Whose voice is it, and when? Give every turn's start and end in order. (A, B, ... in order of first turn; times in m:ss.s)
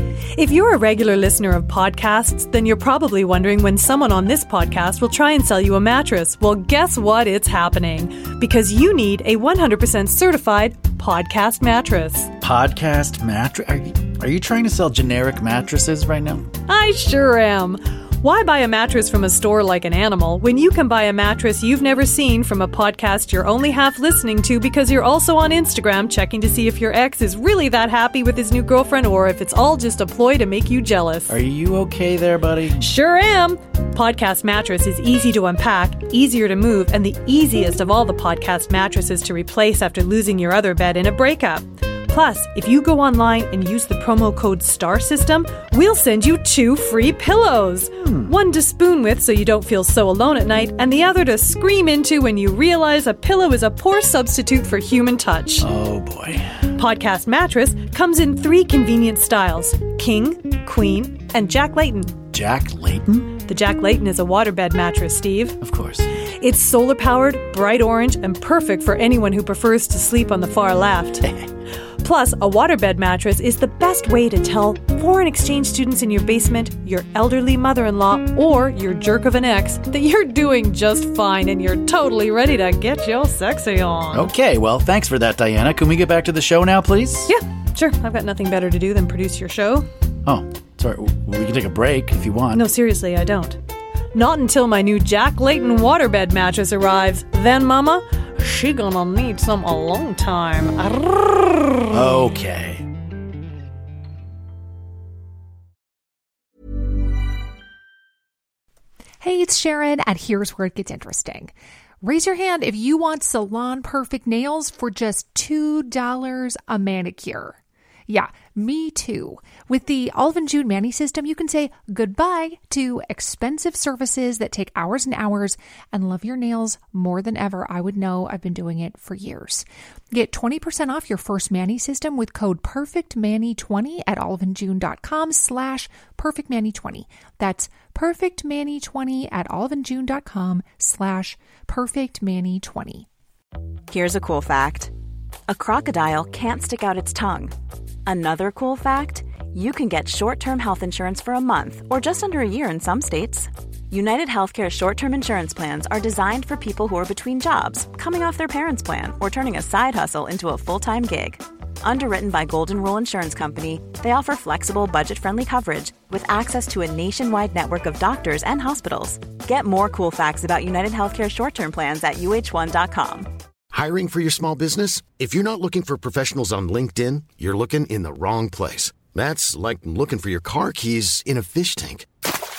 0:00.4-0:12.3 A
0:12.4-0:16.5 B
0:16.7-0:31.3 A
0:31.3-0:32.9 B
0:32.8-0:55.7 A
0:48.0-0:48.3 B
0:55.6-0:56.7 B
0:56.8-1:02.2 A
1:02.3-1:03.4 B
1:03.5-1:05.6 A
1:05.6-1:06.1 B
1:06.4-1:11.3 A
1:12.0-1:24.3 A
1:24.1-1:27.3 B
1:27.3-1:29.9 A
1:30.2-1:32.6 B
1:32.5-1:33.6 A
1:34.1-1:41.7 A
1:41.9-1:42.9 B
1:49.2-2:23.1 C
2:23.9-2:24.9 D
2:25.5-2:27.5 D
2:28.1-2:53.3 D
2:53.7-3:02.1 E